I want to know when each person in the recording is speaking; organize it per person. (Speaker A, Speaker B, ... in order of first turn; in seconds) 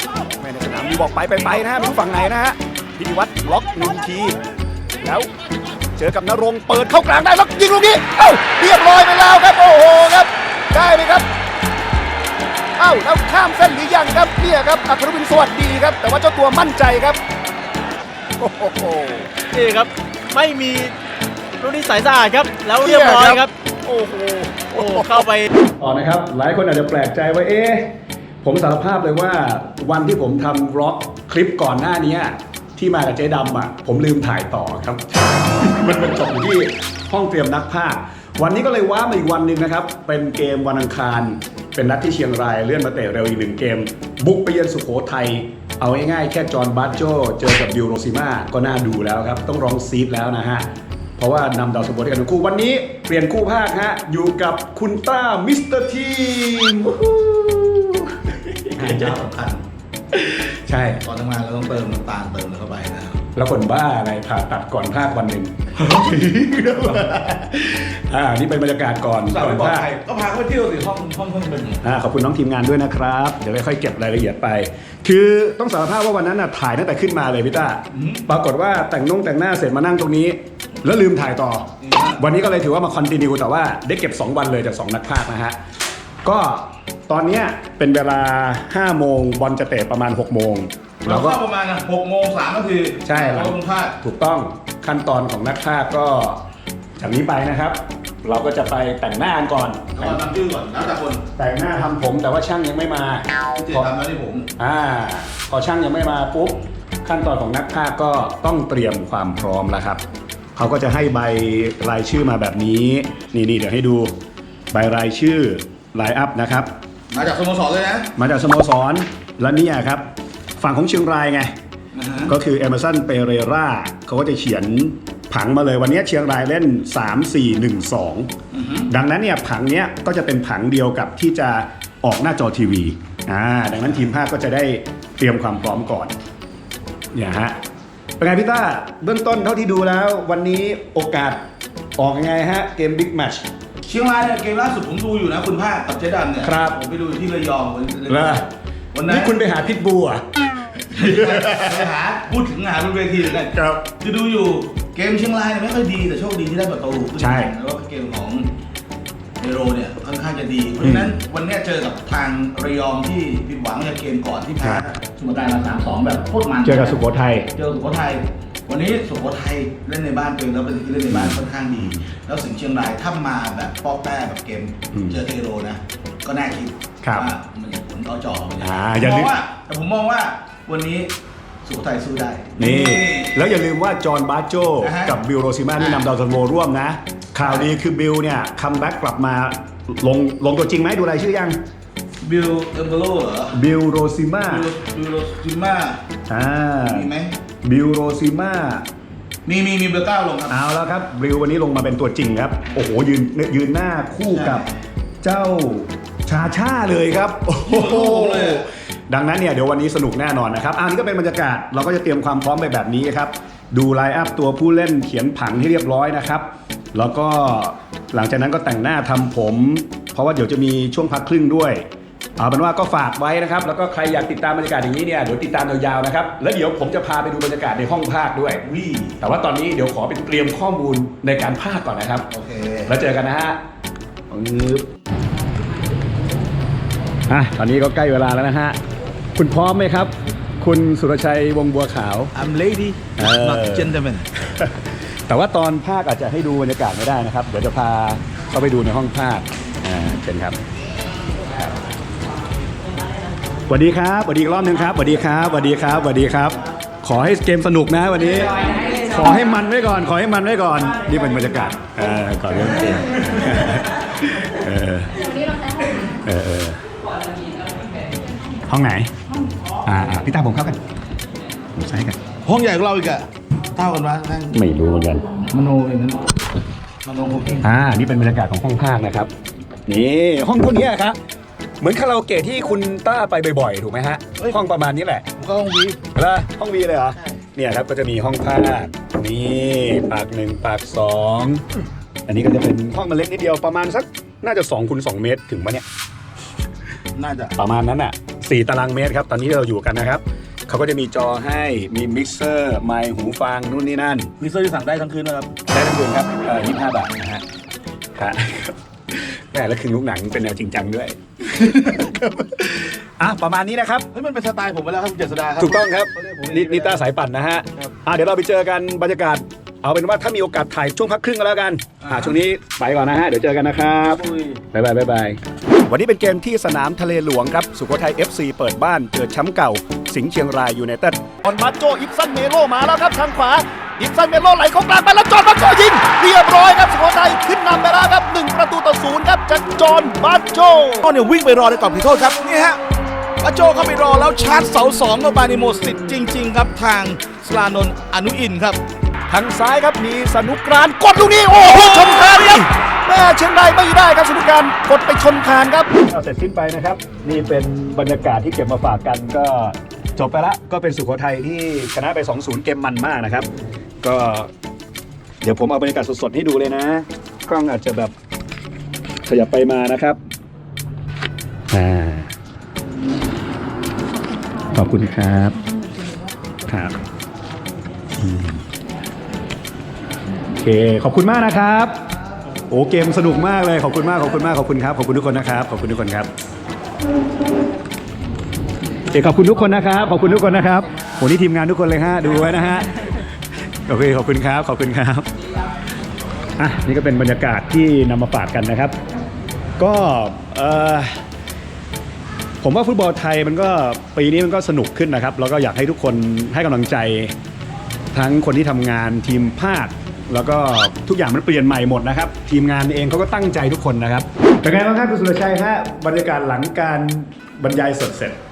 Speaker A: 0.3-4.4, 5.0-5.3, 6.0-11.3, 12.8-17.2, 18.4-19.3, 22.8-25.2, 25.8-27.9, 28.4-50.7, 51.2-59.2, 60.1-61.0, 63.4-69.9, 71.8-85.6, 86.2-91.4, 93.0-96.4, 97.0-100.2, 101.4-103.9, 104.6-110.0, 110.6-114.1, 114.7-116.7, 118.2-120.0, 120.6-121.5, 122.2-128.3, 128.9-136.1, 137.1-137.6, 138.2-141.4, 142.0-143.4, 146.4-146.8, 148.1-148.4, 149.1-150.2, 150.9-151.8, 153.5-153.9, 157.2-157.5, 160.8-161.2, 166.6-167.5, 171.1-172.0, 174.9-175.2, 177.0-177.3, 178.6-179.3, 182.6-191.6, 193.5-194.7, 196.3-197.1, 197.6-198.8, 200.5-204.7, 205.2-221.8, 222.4-228.6, 229.2-232.3, 232.9-233.6, 234.3-234.8, 237.3-238.8, 239.4-242.3, 243.2-250.6, 253.7-266.8, 268.7-269.1, 269.8-270.8, 271.8-272.2, 274.5-275.3, 277.6-279.3, 279.9-281.2, 281.8-285.3, 286.1-291.6, 292.3-295.9, 297.6-304.3, 305.7-307.4, 308.1-314.1, 315.6-341.1, 349.3-363.5, 364.0-364.5, 365.4-368.1, 369.3-370.2, 371.7-372.3, 374.7-375.6, 376.7-377.0, 378.2-378.6, 380.6-382.0, 382.7-386.3, 389.1-393.3, 393.9-395.3, 396.6-398.9, 399.8-401.2, 402.6-407.3, 408.1-418.4
Speaker B: 19.5-20.9, 21.6-23.5, 24.7-25.5
Speaker C: 58.8-59.6, 61.0-63.2, 69.3-71.8, 77.9-78.2, 81.8-82.2, 91.0-94.0, 100.0-101.2, 103.6-104.5, 117.1-118.1, 122.0-122.3, 128.5-128.9, 143.8-149.6, 150.9-158.5, 159.4-181.1, 181.6-183.4, 184.8-185.2, 185.8-186.1, 187.4-187.7, 192.2-193.6, 194.4-196.0, 196.8-197.3, 199.5-200.6, 204.3-204.7, 207.7-208.7, 228.6-229.2, 232.3-233.0, 242.3-244.3, 272.4-274.6, 275.5-276.4, 277.0-277.7, 285.4-286.1, 297.1-297.6, 304.4-305.6, 314.1-317.1, 322.0-322.4, 324.1-324.6, 341.0-342.8, 343.4-348.8, 351.6-352.6